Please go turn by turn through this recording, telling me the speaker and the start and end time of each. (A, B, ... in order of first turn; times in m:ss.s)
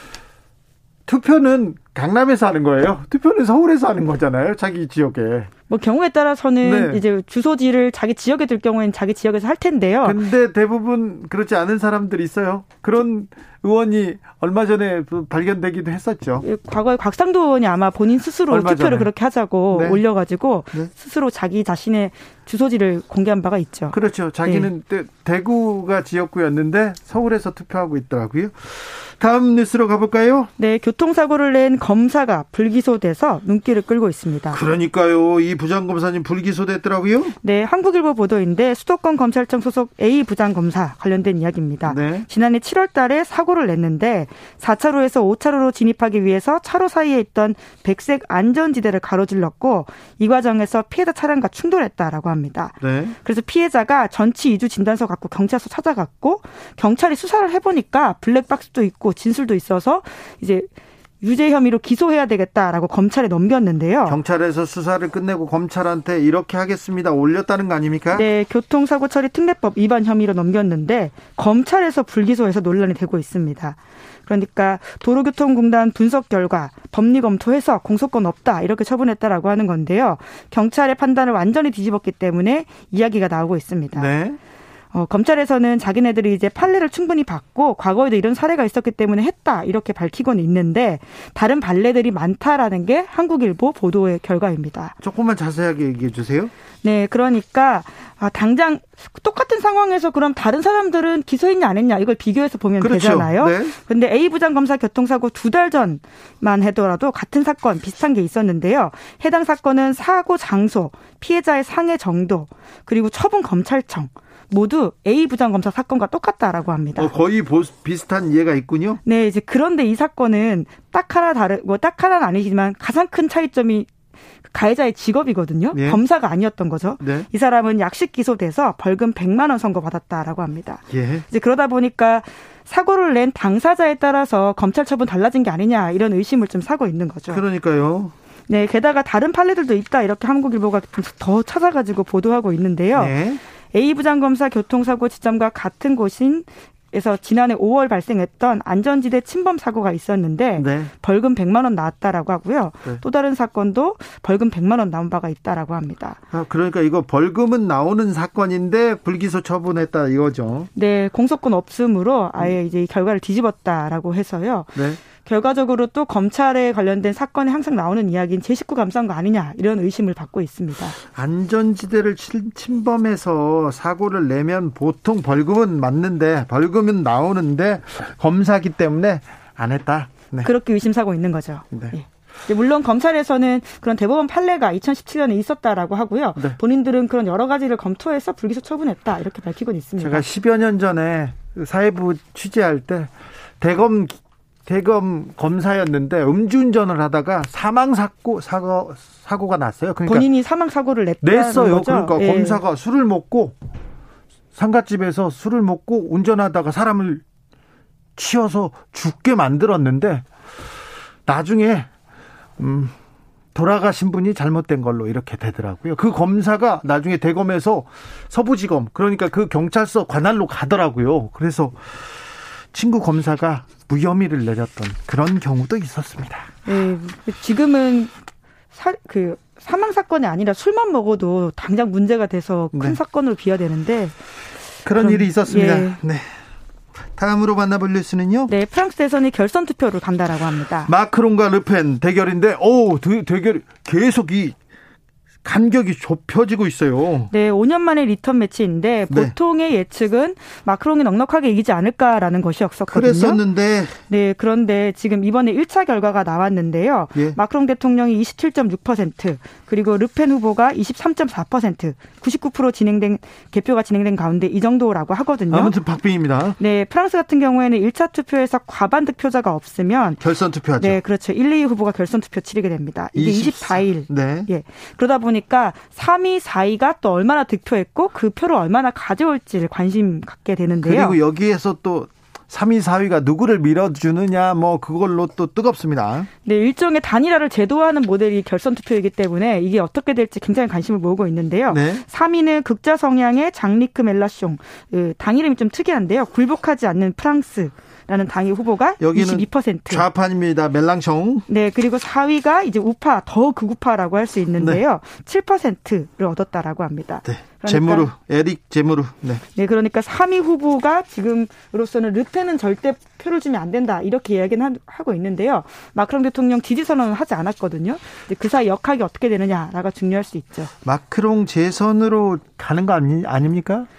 0:01.1-0:05.5 A
0:05.7-0:10.2 B
0:06.6-0:07.0 A
0:10.0-0:16.4 A
0:16.4-0:24.7 B
0:18.5-0:19.1 A
0:19.7-0:20.0 A
0:23.9-0:30.5 A
0:30.6-0:34.6 B
0:34.5-0:37.4 A
0:37.4-1:00.7 B
0:41.9-0:42.3 A
0:52.8-0:53.2 A
1:01.2-1:04.2 B
1:04.1-1:08.2 A
1:08.1-1:24.1 B
1:24.0-1:24.4 A
1:24.9-1:35.0 B
1:35.0-1:36.5 A
1:36.8-1:57.1 B
1:42.8-1:43.8 A
1:57.0-1:59.0 A
1:59.0-2:03.9 B
2:04.5-2:17.4 B
2:05.7-2:06.0 A
2:07.0-2:07.3 A
2:10.9-2:11.3 A
2:17.3-2:18.1 A
2:18.5-2:23.1 B
2:23.0-2:23.4 A
2:23.7-2:36.2 B
2:30.6-2:30.9 A
2:36.3-2:40.7 A
2:40.8-2:51.0 B
2:51.0-3:00.5 A
3:00.4-3:10.3 B
3:10.0-3:20.3 A
3:20.0-3:22.6 B
3:21.2-3:23.6 A
3:24.6-3:27.2 A
3:28.2-3:30.2 A
3:31.3-3:31.9 A
3:32.6-3:32.9 A
3:33.6-3:42.0 A
3:42.7-3:46.5 A
3:46.7-3:48.2 B
3:48.7-3:54.2 B
3:52.7-3:53.0 A
3:54.8-3:56.3 A
3:54.9-3:56.0 B
3:57.2-3:58.5 A
3:58.5-4:00.9 B
4:00.9-4:04.6 A
4:05.4-4:07.3 A
4:07.3-4:13.4 B
4:09.1-4:09.4 A
4:12.9-4:14.0 A
4:14.1-4:25.8 B
4:25.5-4:26.6 A
4:26.6-4:30.2 B
4:30.2-4:31.0 A
4:30.8-4:41.2 B
4:33.2-4:34.5 A
4:40.8-4:46.3 A
4:46.4-5:00.0 B
4:51.7-4:52.0 A
4:59.0-5:01.5 A
5:01.5-5:08.1 B
5:04.6-5:04.8 A
5:07.2-5:09.4 A
5:09.6-5:20.7 B
5:20.8-5:23.9 A